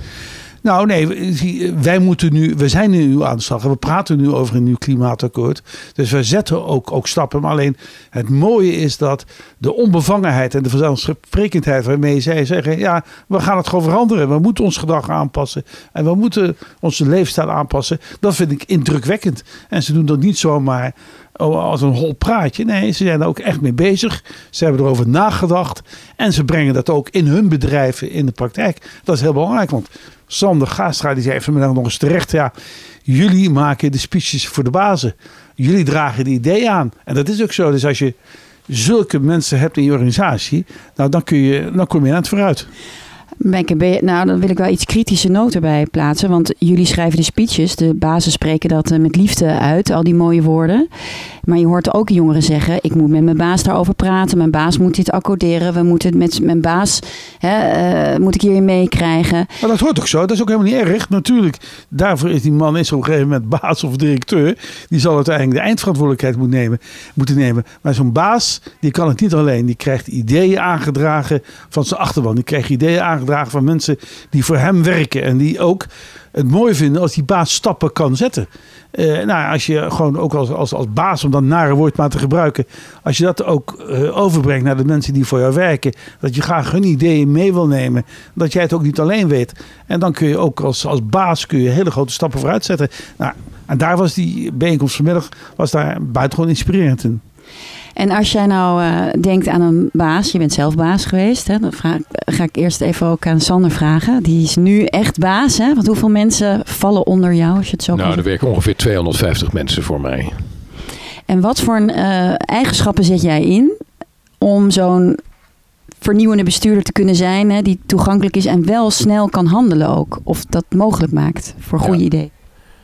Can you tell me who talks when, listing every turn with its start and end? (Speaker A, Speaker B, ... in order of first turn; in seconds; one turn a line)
Speaker A: 0.6-32.5
Speaker A: 33.0-38.1
Speaker A: 38.7-42.7
Speaker B: 43.4-50.9
Speaker B: 51.4-59.5
Speaker A: 59.6-97.2
Speaker B: 98.0-108.2
Speaker C: 107.9-110.4
Speaker B: 111.3-113.7
Speaker B: 114.4-115.2
Speaker B: 116.0-122.3